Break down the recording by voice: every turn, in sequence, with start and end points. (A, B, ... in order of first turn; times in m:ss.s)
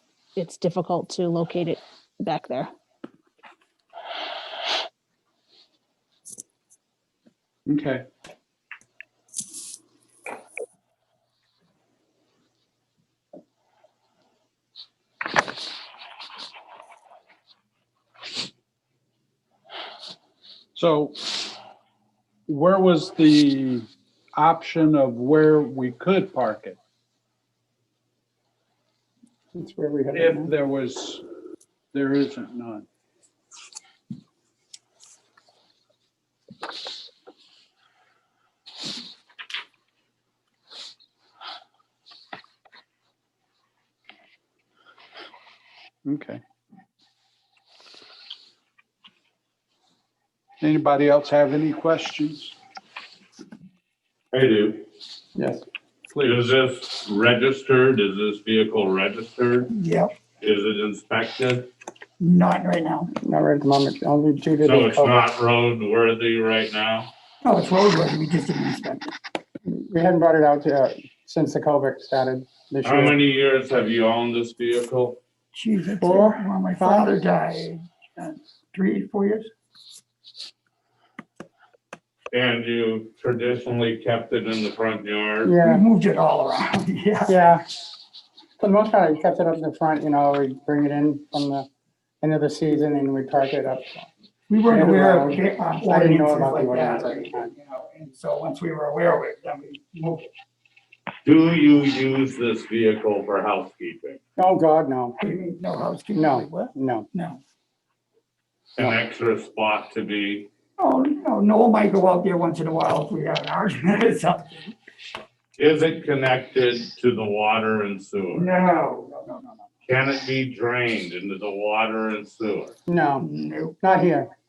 0:00.4-0:02.7 A
0:07.6-0:08.0 B
0:20.7-0:21.3 B
0:22.5-0:26.8 B
0:29.5-0:30.5 C
0:30.1-0:31.2 B
0:31.9-0:32.8 B
0:46.0-0:46.4 B
0:50.6-0:52.5 B
0:54.3-0:54.8 D
0:55.4-0:55.6 C
0:56.1-0:56.4 B
0:56.2-0:59.7 D
0:59.7-1:00.1 E
1:00.4-1:01.7 D
1:02.2-1:03.1 E
1:03.2-1:05.2 C
1:04.6-1:07.1 D
1:07.4-1:09.1 E
1:09.7-1:13.2 C
1:12.8-1:15.2 D
1:15.5-1:19.5 E
1:16.0-1:17.2 C
1:22.3-1:25.5 D
1:25.4-1:25.8 C
1:25.5-1:27.3 E
1:27.3-1:27.6 C
1:28.6-1:31.7 C
1:32.2-1:34.1 C
1:34.5-1:40.3 E
1:34.7-1:37.5 C
1:41.2-1:44.2 D
1:44.4-1:45.2 C
1:45.2-1:47.4 E
1:46.1-1:47.1 C
1:48.8-1:50.5 D
1:50.8-1:54.7 E
1:55.6-1:58.5 D
1:58.3-1:59.6 E
1:59.8-2:02.8 D
2:02.9-2:03.2 C
2:03.2-2:03.8 E
2:03.8-2:04.3 C